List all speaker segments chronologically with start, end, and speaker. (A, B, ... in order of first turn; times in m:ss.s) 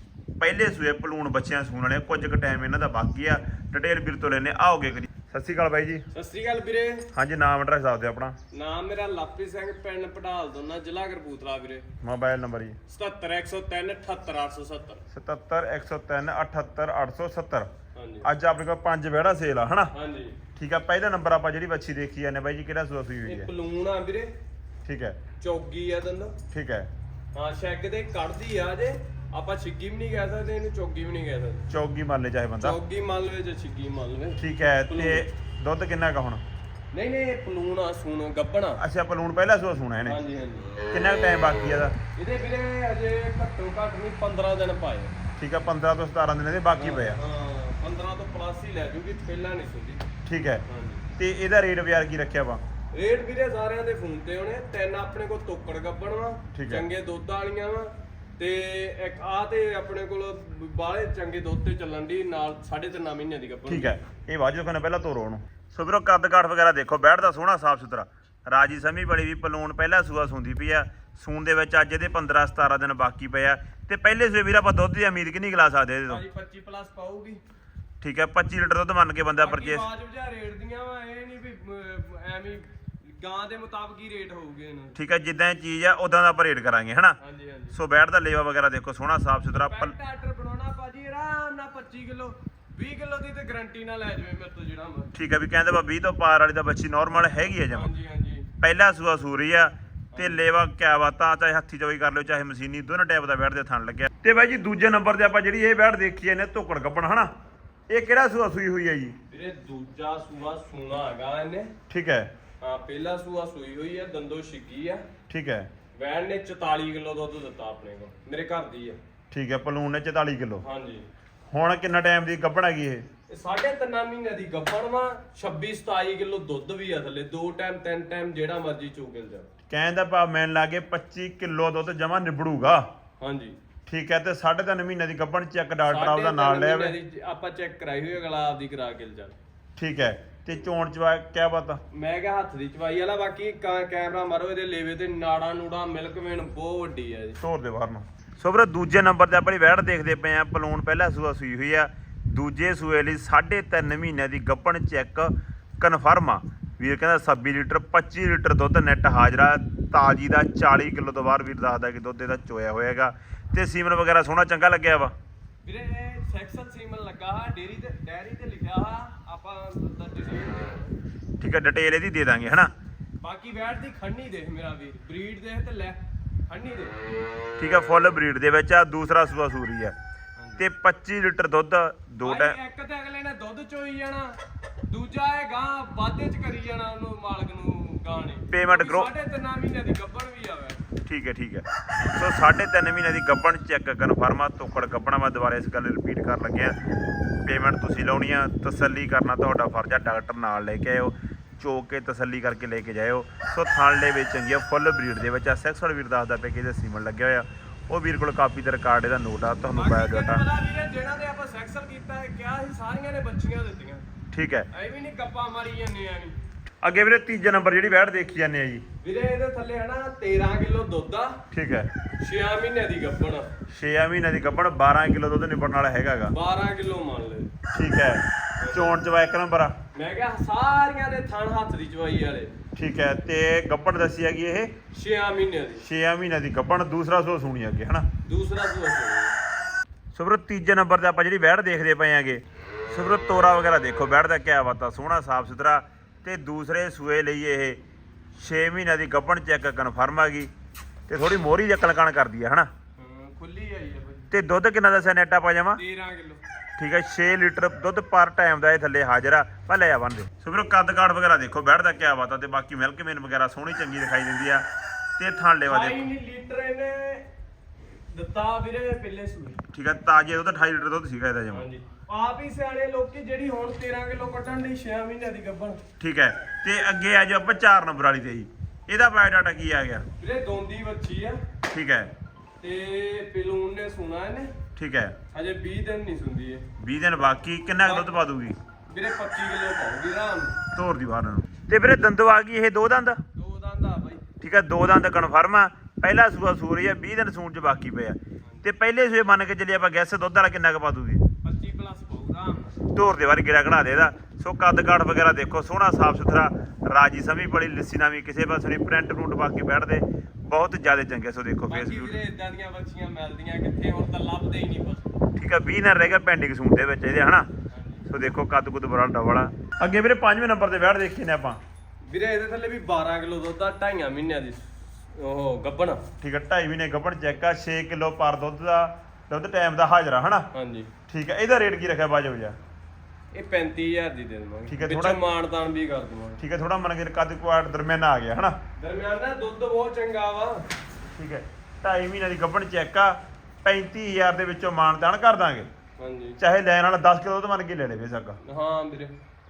0:00.4-0:06.0 A
0:06.1-0:07.1 B
0:07.1-0:08.4 A
0:08.5-0:11.9 B
0:12.0-0:12.8 A
0:12.9-0:15.0 B
0:15.1-0:17.7 A
0:18.0-0:18.3 B
0:18.2-0:19.9 A
0:19.9-0:20.4 B
0:20.6-0:23.5 A
0:23.2-0:24.3 B
0:24.8-0:25.2 A
0:25.4-0:26.4 B
0:26.5-0:26.9 A
0:27.4-0:31.6 B
0:31.7-0:32.8 A
0:32.6-0:35.2 B
0:34.4-0:36.4 A
0:36.9-0:38.8 B
0:38.8-0:40.2 A
0:40.1-0:40.8 B
0:40.9-0:42.0 A
0:42.2-0:45.2 B
0:45.4-0:47.2 A
0:46.8-0:50.0 B
0:50.2-0:50.6 A
0:50.7-0:51.1 B
0:51.2-0:52.6 A
0:52.9-1:04.0 B
0:56.5-0:56.9 A
1:03.7-1:16.2 A
1:16.1-1:17.4 B
1:18.0-1:19.9 A
1:19.4-1:25.0 B
1:25.0-1:27.2 A
1:27.2-1:27.8 B
1:27.7-1:30.0 A
1:29.5-1:35.2 B
1:35.2-1:37.9 A
1:37.4-1:38.5 B
1:38.6-1:47.3 A
1:40.1-1:40.4 B
1:47.9-1:49.2 A
1:49.3-1:51.7 B
1:51.9-1:52.3 A
1:52.6-1:55.1 B
1:55.3-1:55.7 A
1:55.9-1:59.0 B
1:59.3-2:00.6 A
2:00.6-2:01.1 B
2:01.5-2:03.1 A
2:03.3-2:09.5 B
2:09.7-2:12.9 A
2:13.2-2:13.6 B
2:13.9-2:17.0 A
2:15.9-2:19.4 B
2:19.8-2:21.8 A
2:21.9-2:27.4 B
2:27.4-2:45.2 A
2:45.6-2:51.0 B
2:51.4-2:52.7 A
2:53.2-2:57.0 B
2:57.6-3:00.0 A
3:00.4-3:00.7 B
3:00.6-3:02.6 A
3:02.2-3:10.8 B
3:08.5-3:09.1 A
3:11.1-3:16.8 A
3:17.4-3:30.4 A
3:29.8-3:34.0 B
3:34.3-3:34.7 A
3:34.7-3:36.4 B
3:36.8-3:38.8 A
3:39.0-3:41.4 B
3:41.5-3:41.9 A
3:42.2-3:43.5 B
3:43.7-3:46.4 A
3:46.3-3:47.5 B
3:47.7-3:49.7 A
3:48.6-3:49.0 B
3:50.0-3:52.5 B
3:52.8-3:54.7 A
3:54.9-3:55.8 B
3:55.8-3:58.1 A
3:58.3-3:59.3 B
4:00.2-4:07.8 A
4:08.4-4:10.5 A
4:11.1-4:12.7 A
4:13.0-4:14.3 B
4:14.3-4:15.8 A
4:15.8-4:16.4 B
4:16.8-4:24.7 A
4:25.2-4:26.1 A
4:25.7-4:27.3 B
4:28.1-4:29.6 B
4:29.7-4:31.7 A
4:31.5-4:35.8 B
4:36.0-4:40.1 A
4:40.2-4:41.4 B
4:41.7-4:42.1 A
4:42.6-4:44.5 B
4:44.8-4:45.2 A
4:45.3-4:46.7 B
4:46.8-4:48.6 A
4:47.8-4:48.2 B
4:48.9-4:50.6 B
4:50.8-4:53.2 A
4:53.4-4:54.2 B
4:54.4-5:01.2 A
5:01.4-5:02.8 B
5:02.9-5:12.2 A
5:11.7-5:15.1 B
5:15.4-5:17.5 A
5:17.7-5:18.1 B
5:18.1-5:21.6 A
5:22.1-5:26.1 B
5:26.2-5:30.5 A
5:30.5-5:30.9 B
5:31.1-5:32.6 A
5:33.3-5:36.4 B
5:34.7-5:35.2 A
5:36.4-5:38.6 A
5:38.8-5:40.7 B
5:41.2-5:45.7 A
5:46.0-5:46.4 B
5:46.4-5:48.4 A
5:48.4-5:49.1 B